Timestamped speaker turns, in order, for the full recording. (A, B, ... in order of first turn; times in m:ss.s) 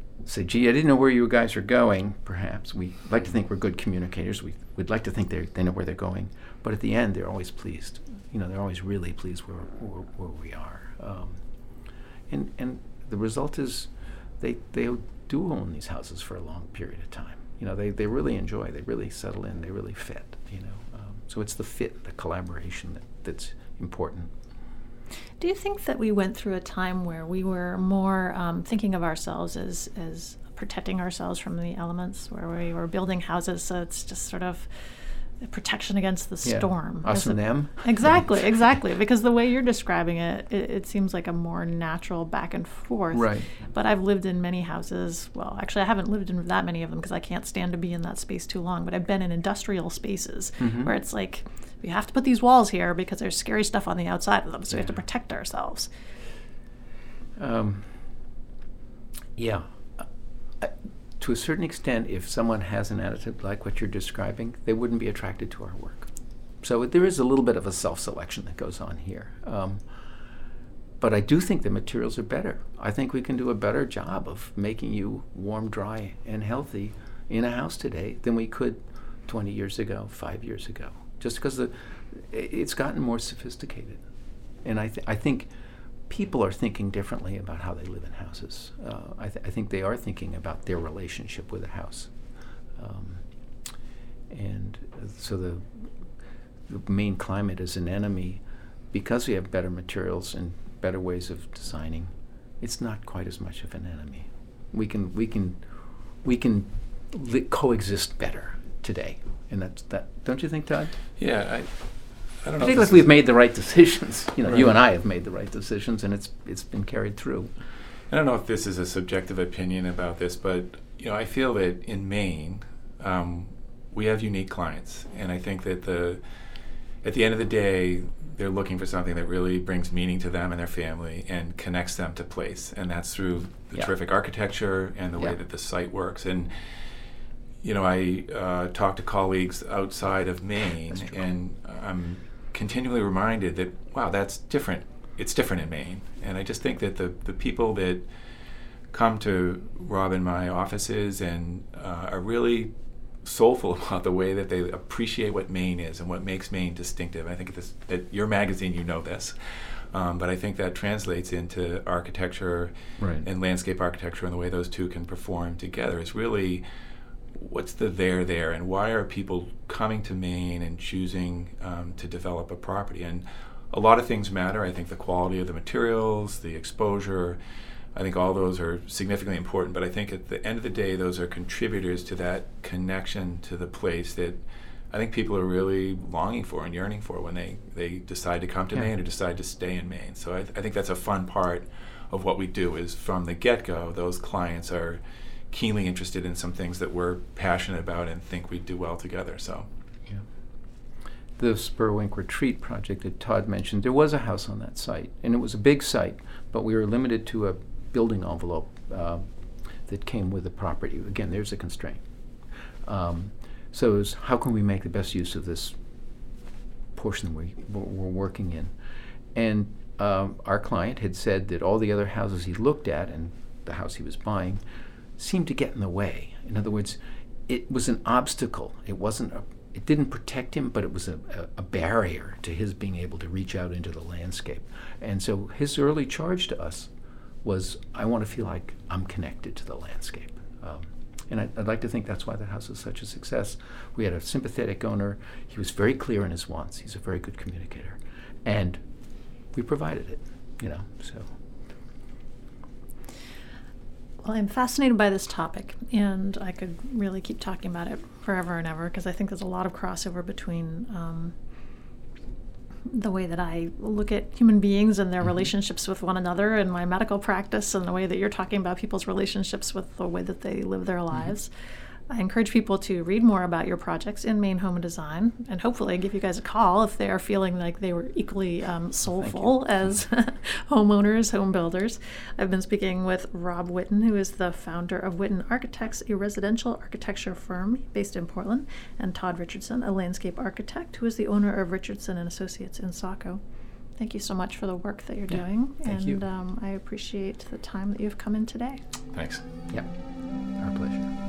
0:00.2-0:11.4 A
0:12.3-0:24.3 A
0:25.4-0:34.7 B
0:35.4-0:55.9 B
0:36.4-0:38.3 A
0:43.1-0:43.5 A
0:50.6-0:50.9 A
0:57.4-0:58.0 A
0:59.4-1:00.1 A
1:00.6-1:06.1 A
1:06.6-1:09.8 A
1:11.0-1:24.0 A
1:24.6-1:25.5 A
1:26.1-1:32.1 A
1:32.8-1:33.2 A
1:34.3-1:35.9 A
1:36.7-1:45.6 A
1:46.2-1:51.0 A
1:51.2-1:51.8 C
1:52.4-1:53.1 C
1:52.6-1:57.5 A
1:58.1-2:06.2 C
2:07.0-2:16.6 C
2:17.6-2:28.1 C
2:28.9-2:32.7 C
2:33.2-2:46.6 C
2:43.0-2:43.3 A
2:47.3-2:57.4 C
2:58.0-3:19.7 C
3:21.4-3:29.3 A
3:29.9-3:32.0 A
3:32.8-3:35.8 A
3:37.0-3:38.7 A
3:39.3-3:44.6 A
3:45.2-3:56.9 A
3:57.4-4:08.8 A
4:09.5-4:11.3 A
4:14.2-4:21.4 B
4:22.9-4:31.5 B
4:32.1-4:53.4 B
4:39.1-4:39.6 A
4:54.0-4:58.8 B
4:55.3-4:56.2 A
4:59.1-4:59.4 C
5:00.6-5:01.1 A